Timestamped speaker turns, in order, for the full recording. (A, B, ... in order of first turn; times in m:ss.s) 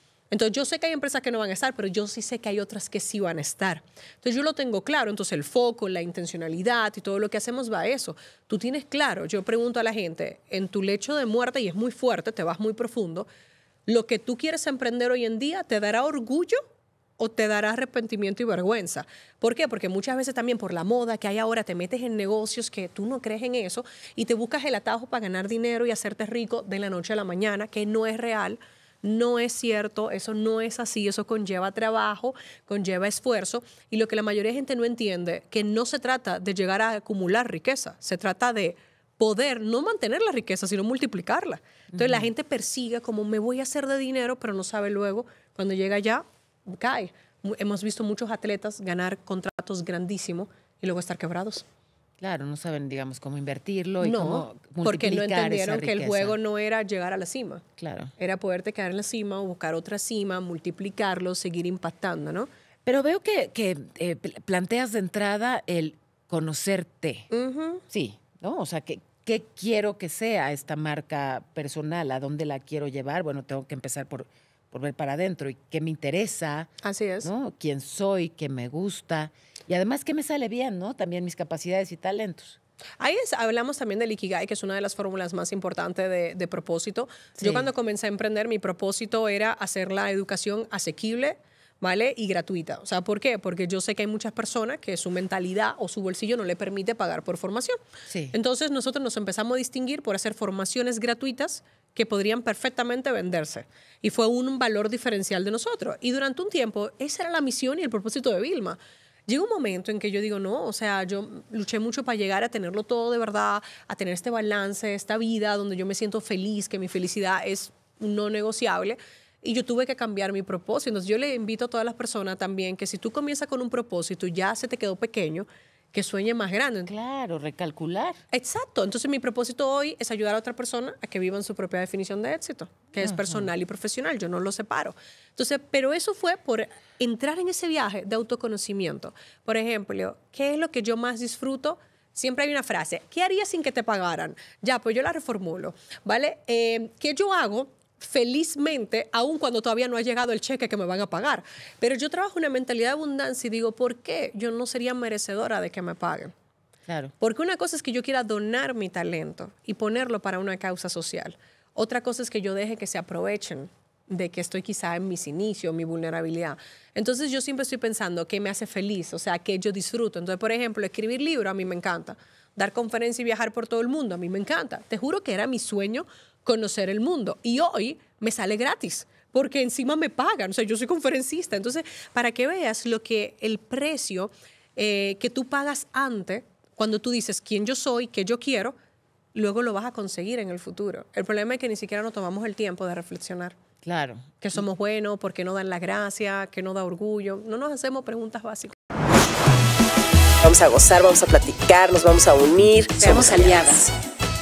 0:00.3-0:13.3 A
0:13.9-0:16.6 A
0:17.2-0:51.6 A
0:41.9-0:42.3 B
0:52.2-0:56.4 B
0:54.0-0:57.6 A
0:57.8-0:58.1 B
0:58.2-1:02.5 A
1:02.8-1:07.3 B
1:07.3-1:07.8 A
1:07.9-1:16.7 B
1:16.8-1:17.3 A
1:17.2-1:22.6 B
1:23.0-1:37.8 A
1:27.4-1:27.7 B
1:38.1-1:38.3 B
1:38.3-2:06.9 A
2:06.9-2:08.2 B
2:08.3-2:36.3 A
2:13.0-2:13.5 B
2:36.9-2:37.1 B
2:37.2-3:08.7 A
3:09.3-3:13.6 A
3:13.8-3:14.2 B
3:14.4-3:18.8 A
3:20.4-3:23.6 C
3:23.0-3:23.9 B
3:23.0-3:23.4 A